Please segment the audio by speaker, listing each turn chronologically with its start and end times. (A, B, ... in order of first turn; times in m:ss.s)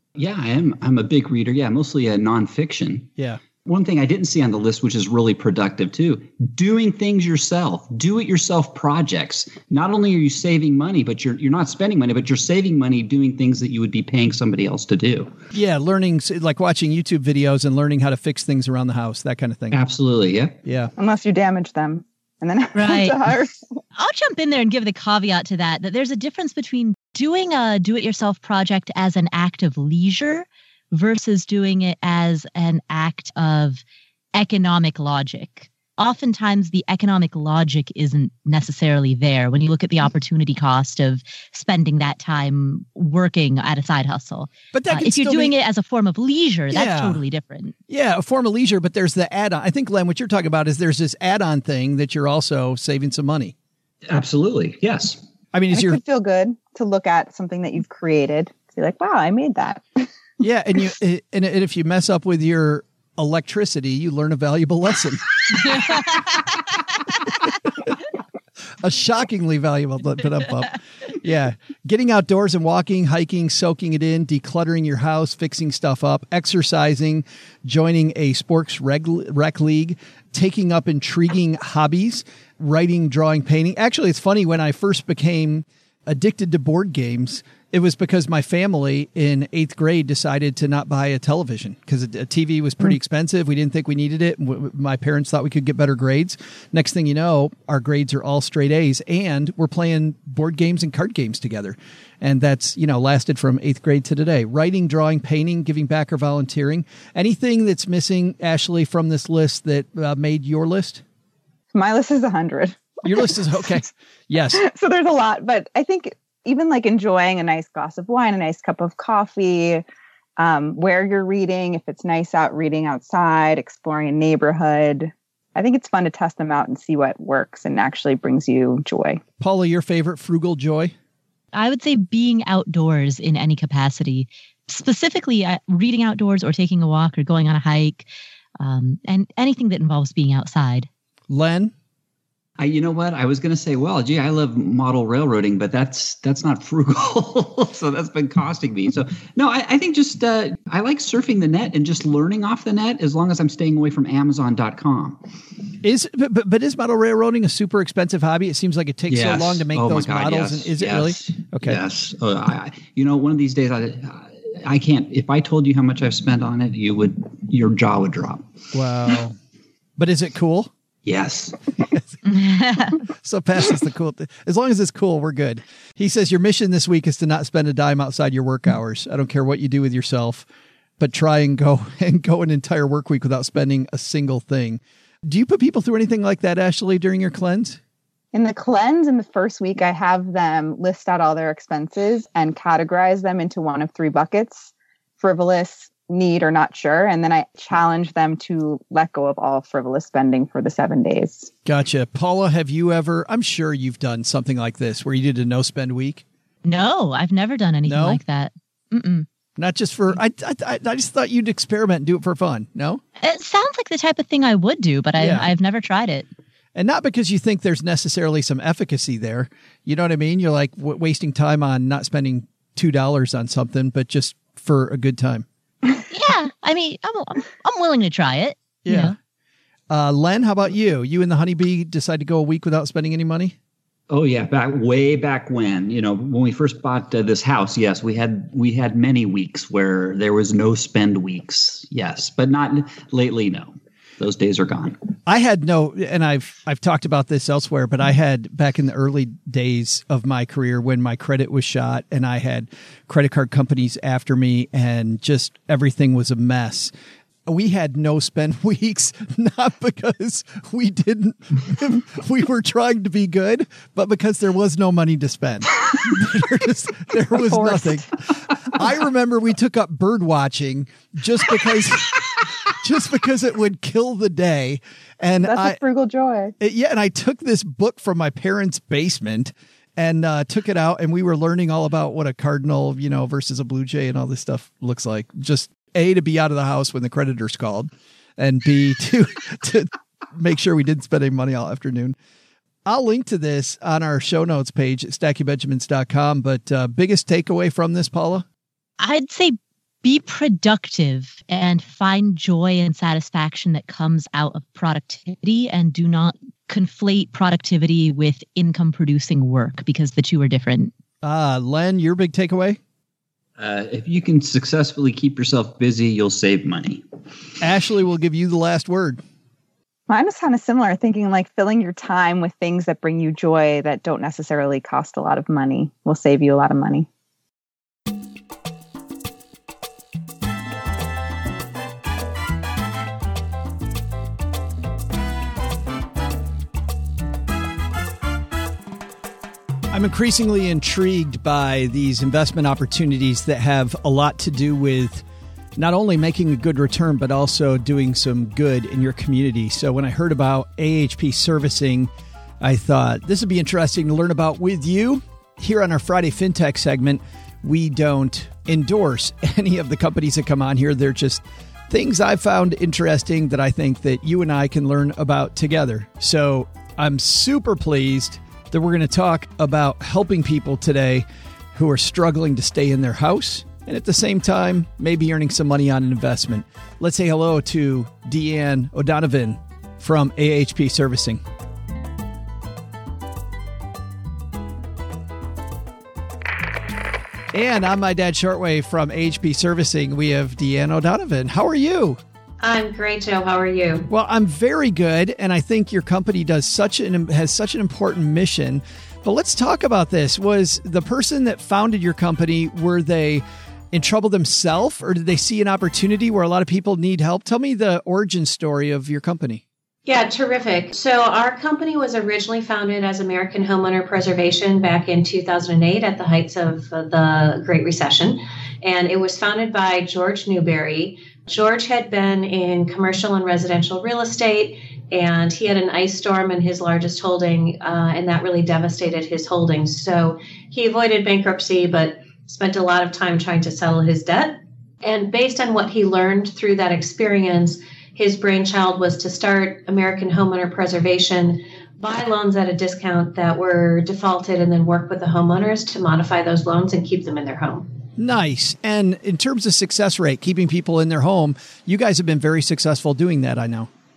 0:00.2-0:03.1 A
0:03.6-0:15.4 A
0:15.5-0:19.8 B
0:19.7-0:20.6 A
0:20.6-0:20.9 B
0:21.0-0:23.6 C
0:22.8-0:23.2 D
0:24.0-0:33.8 D
0:34.4-0:47.8 D
0:44.7-0:45.6 B
0:46.7-0:47.2 B
0:47.9-0:53.5 B
0:54.1-0:55.2 A
0:55.5-0:56.0 B
0:55.7-1:00.1 C
1:00.4-1:05.2 B
1:05.6-1:06.6 D
1:07.4-1:08.0 B
1:08.8-1:51.0 B
1:51.7-1:53.5 C
1:53.0-1:54.6 B
1:54.5-1:59.8 C
2:00.4-2:09.2 C
2:09.4-2:10.9 B
2:11.5-2:18.1 D
2:18.6-2:20.9 D
2:21.3-2:21.7 B
2:22.6-2:35.2 A
2:35.8-2:41.8 B
2:39.1-2:48.4 A
2:48.7-2:49.4 B
2:50.0-2:50.7 B
2:51.0-2:51.6 A
2:52.2-2:53.0 D
2:53.2-3:00.4 B
3:01.0-3:07.8 B
3:08.3-3:21.5 C
3:21.7-3:26.2 B
3:26.6-3:29.3 D
3:27.8-3:28.2 B
3:29.6-3:33.0 B
3:33.2-3:36.3 D
3:35.2-3:35.5 B
3:36.8-3:45.5 B
3:46.1-3:49.2 D
3:48.9-3:49.1 B
3:49.9-3:53.6 B
3:54.1-4:05.0 A
4:05.3-4:16.9 B
4:17.5-4:28.1 B
4:27.4-4:28.1 C
4:28.7-4:35.8 B
4:35.4-4:36.6 C
4:36.6-4:52.2 B
4:52.9-4:58.5 B
4:59.0-5:10.9 D
5:11.2-5:12.8 B
5:13.6-5:17.0 A
5:17.6-5:19.2 B
5:20.1-5:27.1 C
5:39.9-5:45.2 B
5:45.8-5:52.1 B
5:52.6-6:21.4 B
6:27.5-6:32.2 B
6:32.6-6:34.1 E
6:34.1-6:49.6 B
6:50.1-7:27.9 E
7:28.2-7:33.9 B